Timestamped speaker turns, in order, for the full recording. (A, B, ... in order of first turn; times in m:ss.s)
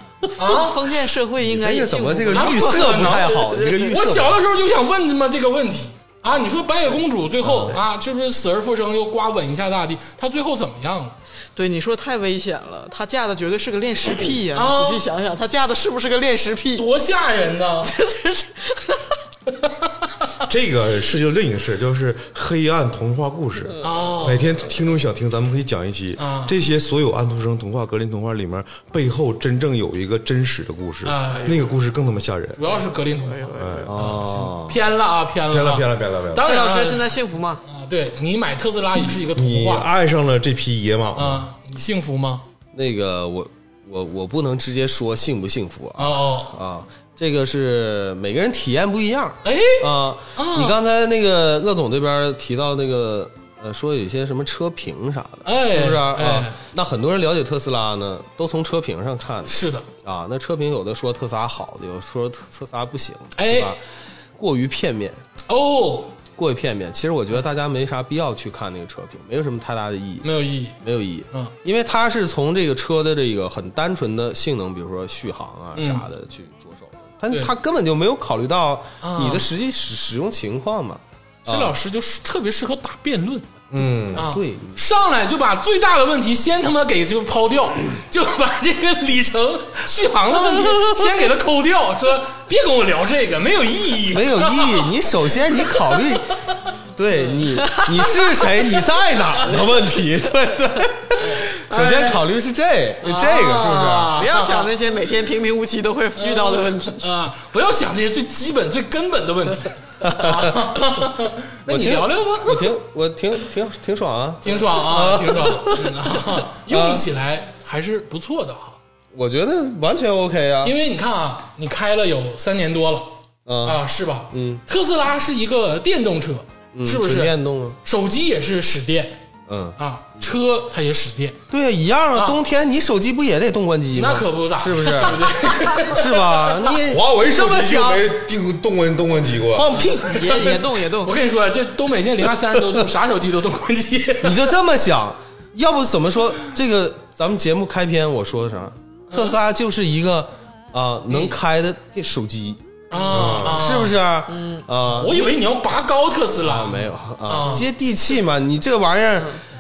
0:00.4-0:00.8 A
0:00.4-0:04.0 B
0:01.4-0:04.4 C
0:02.3-0:03.3 A
0:03.8-0:11.2 A
0:07.4-0:07.8 C
0:11.6-0:16.9 B
0:14.5-0:15.1 A
0:16.8-0:17.9 A
0:17.8-0:19.2 B
0:20.4-0:32.6 D
0:23.8-0:24.5 A
0:26.2-0:26.5 A
0:31.0-0:31.6 A
0:32.6-0:37.1 A
0:32.7-0:33.9 B
0:33.5-0:33.9 D
0:33.9-0:34.8 C
0:35.5-0:36.5 D
0:36.4-0:37.6 B
0:37.7-0:39.9 A
0:39.2-0:41.5 D
0:41.2-0:42.5 A
0:42.7-1:03.8 C
0:46.0-0:46.6 A
0:49.4-0:50.8 A
0:55.4-0:56.6 A
0:59.5-0:59.9 A
1:03.4-1:03.8 A
1:04.4-1:05.2 C
1:05.5-1:06.2 A
1:06.4-1:10.3 C
1:10.2-1:10.8 A
1:10.8-1:21.8 C
1:15.8-1:16.1 A
1:19.0-1:19.5 A
1:21.5-1:23.5 A
1:23.7-1:24.3 D
1:24.1-1:24.8 C
1:24.1-1:34.9 A
1:34.1-1:36.3 C
1:35.6-1:36.0 A
1:37.0-1:44.2 C
1:37.7-1:38.4 B
1:41.7-1:42.2 A
1:43.0-1:44.7 A
1:44.1-1:47.0 B
1:46.2-1:52.8 A
1:50.0-1:50.6 C
1:51.7-1:57.0 C
1:54.4-1:58.8 A
1:59.1-2:00.8 C
2:00.6-2:09.2 A
2:03.5-2:04.6 C
2:06.7-2:07.8 C
2:09.5-2:10.3 C
2:09.8-2:11.4 A
2:11.5-2:18.1 C
2:13.9-2:16.4 A
2:16.9-2:19.8 D
2:19.5-2:20.3 C
2:19.8-2:24.5 A
2:20.0-2:21.2 B
2:24.2-2:32.6 C
2:31.1-2:31.4 A
2:32.9-2:34.0 A
2:33.1-2:33.7 D
2:33.2-2:35.4 C
2:34.3-2:34.6 B
2:34.9-2:37.7 A
2:36.4-2:39.4 C